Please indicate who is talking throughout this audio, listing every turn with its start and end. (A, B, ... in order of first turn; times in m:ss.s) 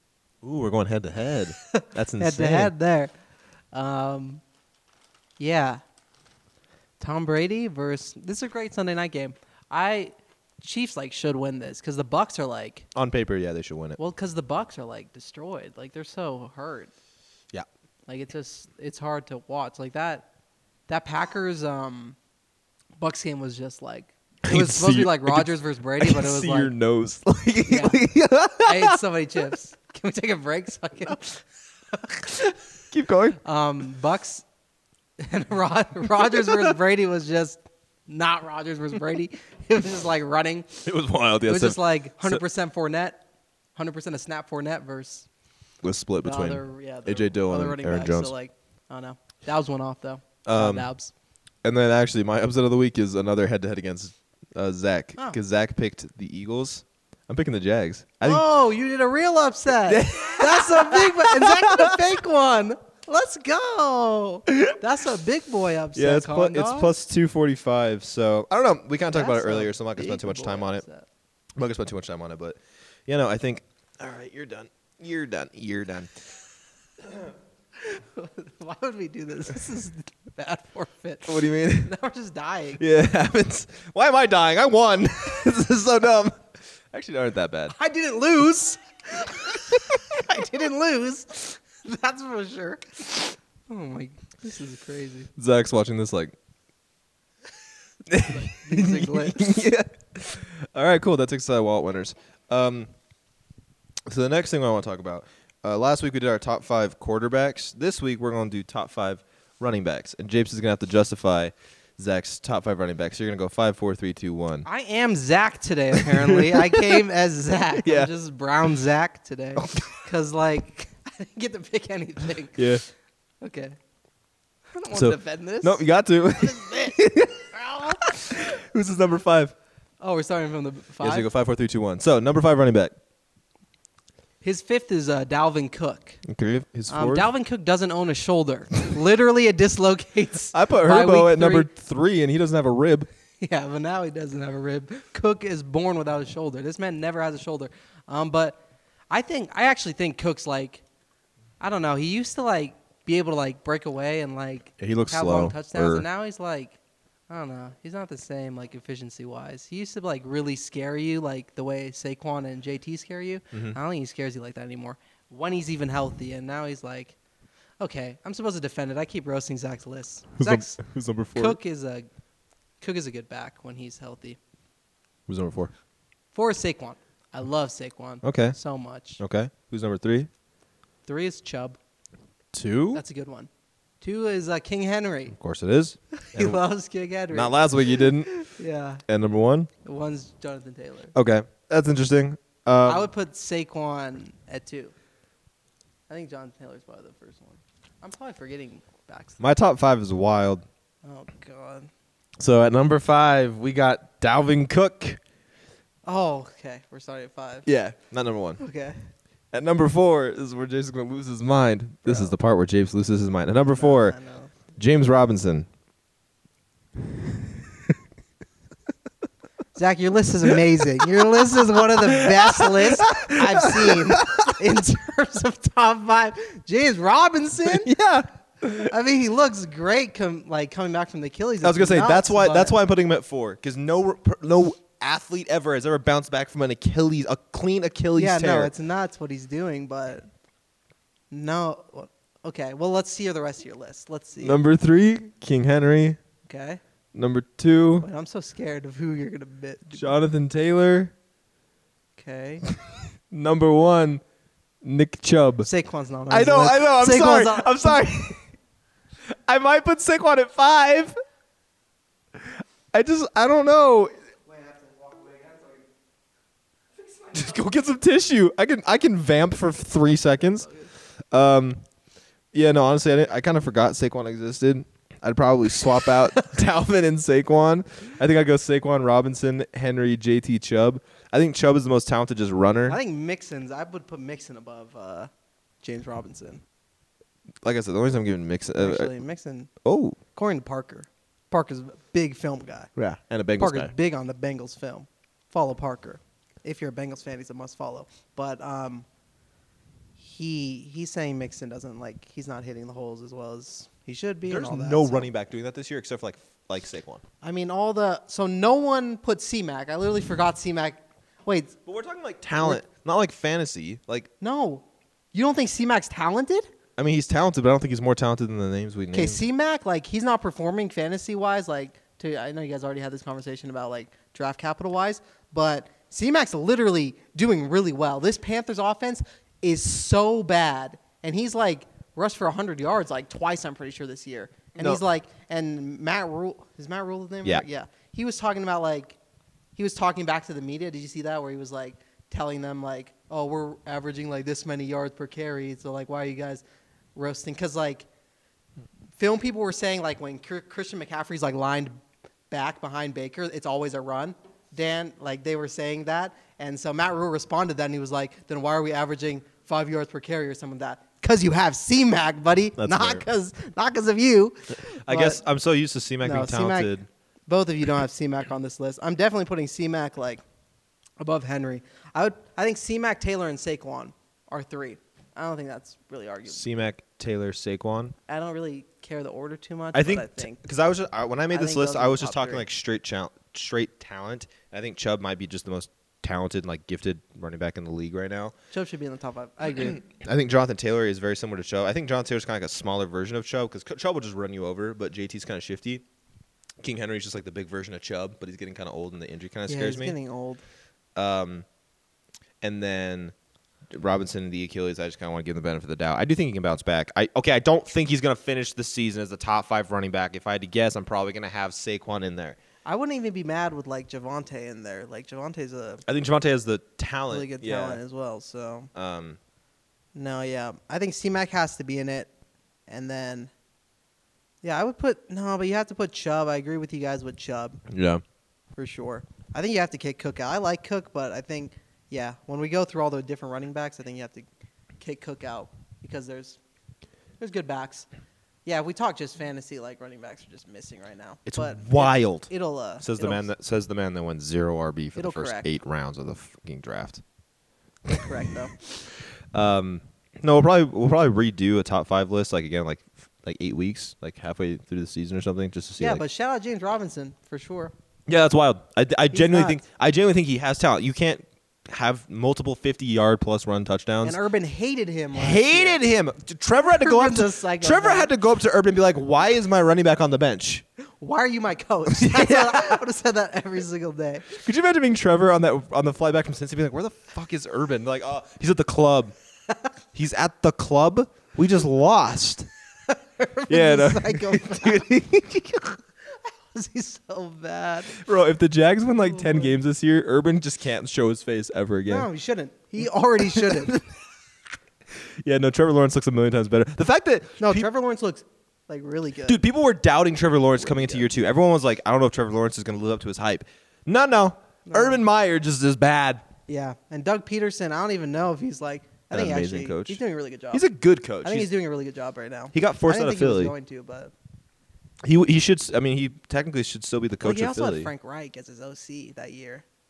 0:00.4-0:02.7 A
0:01.7-0:03.1 B
0:03.7-0:04.4 B
0:05.4-0:05.8 B
0:07.0-0:12.9 B
0:12.9-0:14.0 A
0:14.0-0:16.9 B
0:18.1-0:20.3 B
0:20.9-0:22.2 B
0:23.0-0:26.7 B
0:24.4-0:29.0 A
0:27.6-0:28.0 B
0:28.6-0:32.5 B
0:32.9-0:33.4 A
0:33.4-0:34.4 B
0:35.2-0:40.8 B
0:36.3-0:36.6 A
0:40.8-0:42.4 A
0:41.5-0:43.2 B
0:43.8-0:45.3 B
0:45.8-0:48.3 A
0:46.2-0:51.1 B
0:50.4-0:50.9 A
0:51.6-0:58.4 A
0:58.2-1:06.9 B
0:59.8-1:02.0 A
1:05.9-1:10.8 A
1:09.1-1:11.0 B
1:11.6-1:16.2 A
1:17.0-1:17.3 A
1:17.8-1:22.8 B
1:21.3-1:21.9 A
1:22.8-1:27.7 A
1:27.7-1:35.3 B
1:35.4-1:36.3 A
1:38.1-1:42.9 A
1:38.3-1:39.6 B
1:44.1-1:54.7 A
1:54.6-2:02.8 B
1:55.9-1:57.0 A
1:57.8-1:58.1 A
1:59.6-2:00.0 A
2:02.5-2:02.8 A
2:03.4-2:03.8 B
2:04.7-2:05.8 B
2:04.9-2:07.5 A
2:06.4-2:07.0 B
2:07.5-2:08.0 B
2:08.0-2:09.5 A
2:10.0-2:11.3 B
2:11.0-2:12.9 A
2:14.4-2:16.2 B
2:16.2-2:17.3 A
2:16.9-2:21.7 B
2:20.5-2:23.1 A
2:23.4-2:28.6 B
2:29.1-2:30.8 B
2:31.6-2:36.8 B
2:34.8-2:36.0 A
2:37.3-2:47.2 B
2:47.8-2:50.8 B
2:50.4-2:51.6 A
2:51.3-2:52.1 B
2:52.8-2:54.4 B
2:55.3-2:55.7 A
2:56.3-2:59.2 B
2:58.2-2:58.6 A
2:59.2-3:00.3 A
3:01.0-3:01.8 B
3:02.5-3:03.0 A
3:02.9-3:03.5 B
3:04.0-3:05.3 B
3:05.3-3:06.6 A
3:06.2-3:09.0 B
3:07.3-3:08.3 A
3:09.1-3:09.7 A
3:09.8-3:11.1 B
3:11.1-3:13.1 A
3:12.8-3:14.9 B
3:16.1-3:19.4 B
3:19.4-3:20.6 A
3:21.0-3:21.9 B
3:22.4-3:25.2 A
3:26.0-3:27.7 B
3:27.6-3:28.6 A
3:28.6-3:29.0 B
3:29.5-3:34.2 A
3:32.0-3:32.3 B
3:33.7-3:34.5 B
3:34.8-3:35.7 A
3:39.7-3:47.9 B
3:41.4-3:44.5 A
3:47.6-3:48.9 A
3:48.8-3:52.8 B
3:51.6-3:58.7 A
3:58.2-4:00.3 B
4:01.3-4:04.6 B
4:04.4-4:06.2 A
4:06.4-4:06.8 B
4:07.1-4:08.0 A
4:08.0-4:10.2 B
4:09.9-4:11.1 A
4:12.2-4:12.6 B
4:13.3-4:14.2 A
4:14.8-4:15.7 A
4:15.6-4:18.0 B
4:16.3-4:18.4 A
4:19.3-4:21.2 A
4:22.4-4:24.1 A
4:24.5-4:25.8 B
4:27.0-4:27.4 B
4:27.3-4:30.7 A
4:30.2-4:30.9 B
4:31.3-4:31.8 A
4:32.5-4:43.0 A
4:42.9-4:45.3 B
4:45.8-4:46.6 B
4:47.6-4:49.1 A
4:48.8-4:49.7 B
4:49.8-4:50.2 A
4:50.3-4:52.9 B
4:53.0-4:53.9 A
4:53.6-4:59.0 B
5:00.2-5:05.3 B
5:04.5-5:07.2 A
5:07.4-5:11.8 B
5:11.8-5:14.3 A
5:14.4-5:16.7 B
5:17.0-5:19.4 A
5:19.1-5:39.2 B
5:34.8-5:35.0 A
5:39.8-5:46.6 B
5:47.1-5:48.1 B
5:49.2-5:52.0 B
5:52.5-6:05.4 B
6:02.8-6:03.2 A
6:04.9-6:07.1 A
6:06.2-6:06.9 B
6:07.5-6:10.4 B
6:11.2-6:16.6 B
6:16.5-6:18.1 A
6:18.3-6:20.6 B
6:19.9-6:28.5 A
6:21.5-6:22.6 B
6:28.7-6:30.0 B
6:29.7-6:36.0 A
6:36.8-6:40.2 A
6:39.7-6:40.6 B
6:41.1-6:41.6 A
6:42.6-6:43.3 A
6:43.9-6:52.6 A
6:52.8-6:56.0 B
6:56.0-6:58.0 A
6:57.3-6:58.9 B
6:58.9-6:59.4 A
7:00.1-7:02.3 B
7:02.9-7:03.5 B
7:04.6-7:07.8 B
7:07.9-7:08.2 A
7:08.8-7:14.5 B
7:15.0-7:16.6 B
7:17.4-7:18.1 B
7:18.6-7:23.5 B
7:21.5-7:27.2 A
7:25.2-7:25.7 B
7:28.1-7:28.7 B
7:29.5-7:36.2 A
7:36.0-7:37.9 B
7:38.3-7:44.4 A
7:39.3-7:39.8 B
7:44.2-7:46.0 B
7:45.3-7:50.8 A
7:46.8-7:48.3 B
7:51.2-7:54.5 B
7:52.1-7:53.0 A
7:54.6-7:59.3 A
8:00.1-8:02.7 A
8:03.1-8:08.2 B
8:03.7-8:05.8 A
8:08.2-8:12.3 A
8:09.2-8:09.8 B
8:12.1-8:14.0 B
8:13.5-8:14.0 A
8:15.4-8:17.8 A
8:17.6-8:19.6 B
8:19.4-8:26.4 A
8:20.9-8:21.2 B
8:24.8-8:25.2 B
8:26.7-8:30.8 B
8:29.3-8:30.2 A
8:30.7-8:31.7 A
8:31.4-8:34.3 B
8:32.7-8:33.7 A
8:35.2-8:38.1 A
8:37.4-8:39.8 B